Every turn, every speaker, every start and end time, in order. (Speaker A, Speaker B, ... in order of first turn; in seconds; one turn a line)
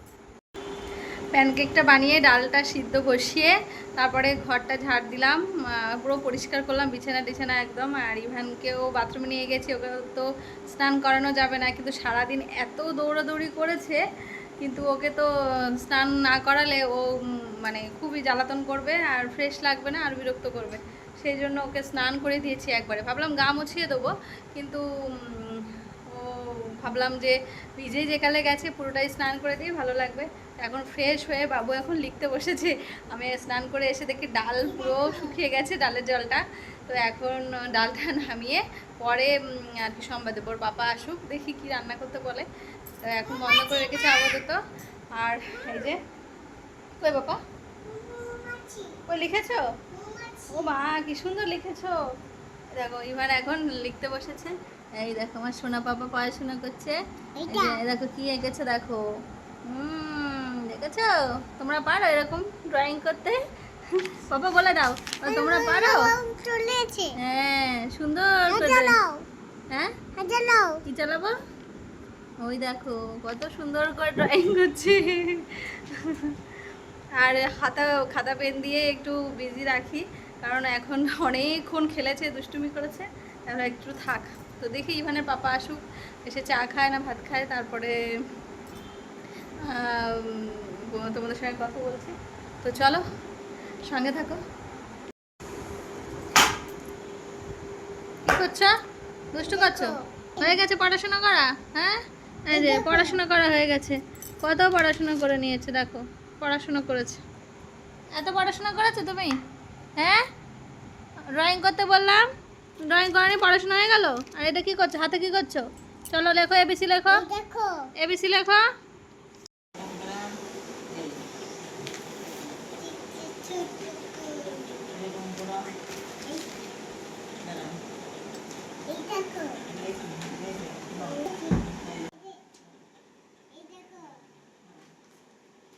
Speaker A: 1.3-14.0
Speaker A: 14.6-15.3
Speaker A: 15.8-42.5
Speaker B: 34.9-35.3
Speaker A: 43.0-44.6
Speaker A: 45.2-46.0
Speaker A: 47.0-47.4
Speaker B: 47.8-49.0
Speaker A: 49.1-49.8
Speaker B: 49.9-50.7
Speaker A: 50.5-52.0
Speaker A: 52.8-57.0
Speaker B: 57.4-57.8
Speaker A: 57.5-59.0
Speaker A: 59.7-63.5
Speaker A: 64.0-66.2
Speaker B: 65.2-67.2
Speaker A: 67.2-69.0
Speaker B: 68.5-69.2
Speaker B: 70.2-70.8
Speaker A: 70.9-71.4
Speaker A: 72.4-76.4
Speaker A: 77.2-88.0
Speaker A: 89.7-93.0
Speaker A: 93.9-94.4
Speaker A: 98.2-98.7
Speaker A: 99.3-107.2
Speaker B: 99.4-100.6
Speaker B: 102.5-103.2
Speaker A: 108.2-109.4
Speaker A: 110.0-110.3
Speaker A: 111.3-112.3
Speaker A: 112.8-117.3
Speaker B: 117.1-117.9
Speaker A: 118.0-118.7
Speaker B: 122.8-124.9
Speaker B: 128.9-129.8
Speaker B: 130.9-131.6
Speaker B: 133.5-134.1